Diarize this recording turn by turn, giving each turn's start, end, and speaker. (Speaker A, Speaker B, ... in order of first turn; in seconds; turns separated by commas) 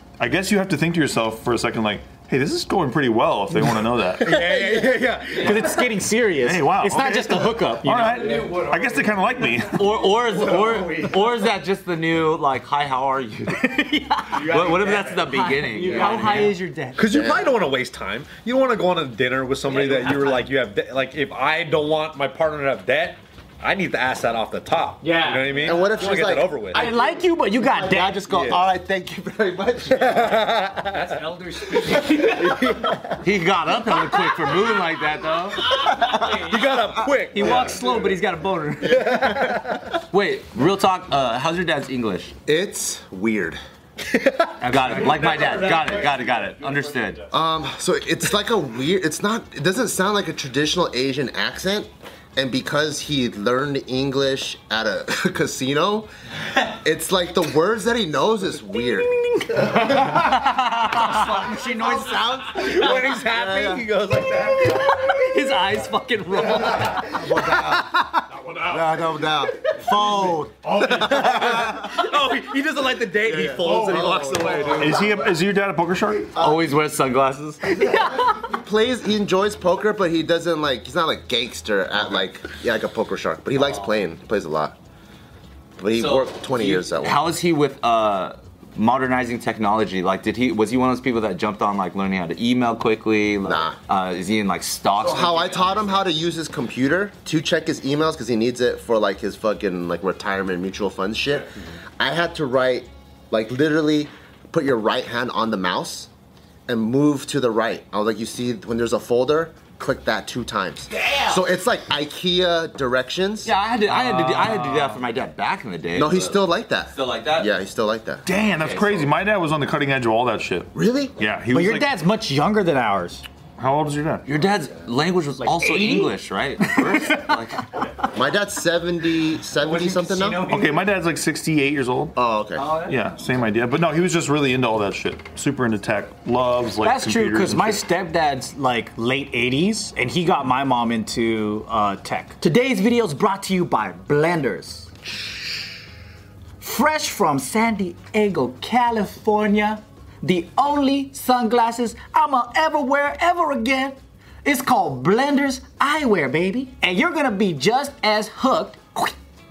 Speaker A: 0.2-4.5, Speaker B: 4.2-5.9, Speaker C: 4.5-4.8, Speaker C: 5.3-8.5, Speaker A: 6.4-9.9, Speaker D: 8.3-9.2, Speaker E: 9.7-16.6, Speaker C: 13.5-16.8, Speaker D: 15.6-17.1, Speaker B: 17.0-26.9, Speaker F: 17.1-17.6, Speaker D: 19.7-20.3, Speaker C: 20.0-20.3, Speaker C: 25.0-25.8, Speaker F: 25.6-30.5, Speaker C: 26.7-28.2, Speaker B: 28.3-28.6, Speaker B: 29.9-31.2, Speaker D: 30.9-32.6, Speaker B: 31.7-33.0, Speaker E: 33.2-35.8, Speaker D: 35.8-36.5, Speaker B: 36.1-38.1, Speaker D: 37.3-39.5, Speaker B: 38.9-39.9, Speaker F: 39.0-39.7, Speaker E: 40.1-42.3, Speaker F: 42.5-43.6, Speaker B: 44.1-46.2, Speaker D: 44.6-46.1, Speaker E: 44.6-47.3, Speaker F: 47.3-59.1, Speaker D: 59.6-60.3, Speaker E: 60.2-61.1, Speaker D: 60.9-68.0, Speaker F: 60.9-63.9, Speaker B: 62.6-64.7, Speaker F: 66.9-68.0, Speaker F: 68.6-72.1, Speaker B: 70.7-75.1, Speaker F: 73.2-74.8, Speaker A: 74.8-76.4, Speaker E: 76.4-78.0, Speaker F: 76.4-76.7, Speaker F: 77.8-84.8, Speaker F: 85.8-87.3, Speaker E: 86.0-96.0, Speaker F: 93.5-93.8, Speaker F: 95.0-106.1, Speaker F: 106.7-113.5, Speaker E: 113.5-117.5, Speaker C: 114.1-114.9, Speaker F: 116.0-118.2, Speaker A: 118.3-121.9, Speaker E: 118.6-119.1, Speaker F: 120.8-121.2, Speaker C: 121.5-123.2, Speaker A: 123.6-124.3, Speaker E: 124.3-127.6, Speaker C: 125.4-127.3, Speaker F: 128.1-130.5, Speaker D: 129.6-130.9, Speaker A: 130.5-132.2, Speaker F: 132.2-132.8, Speaker D: 132.6-132.9, Speaker A: 132.8-137.8, Speaker C: 136.8-145.2, Speaker C: 146.6-159.2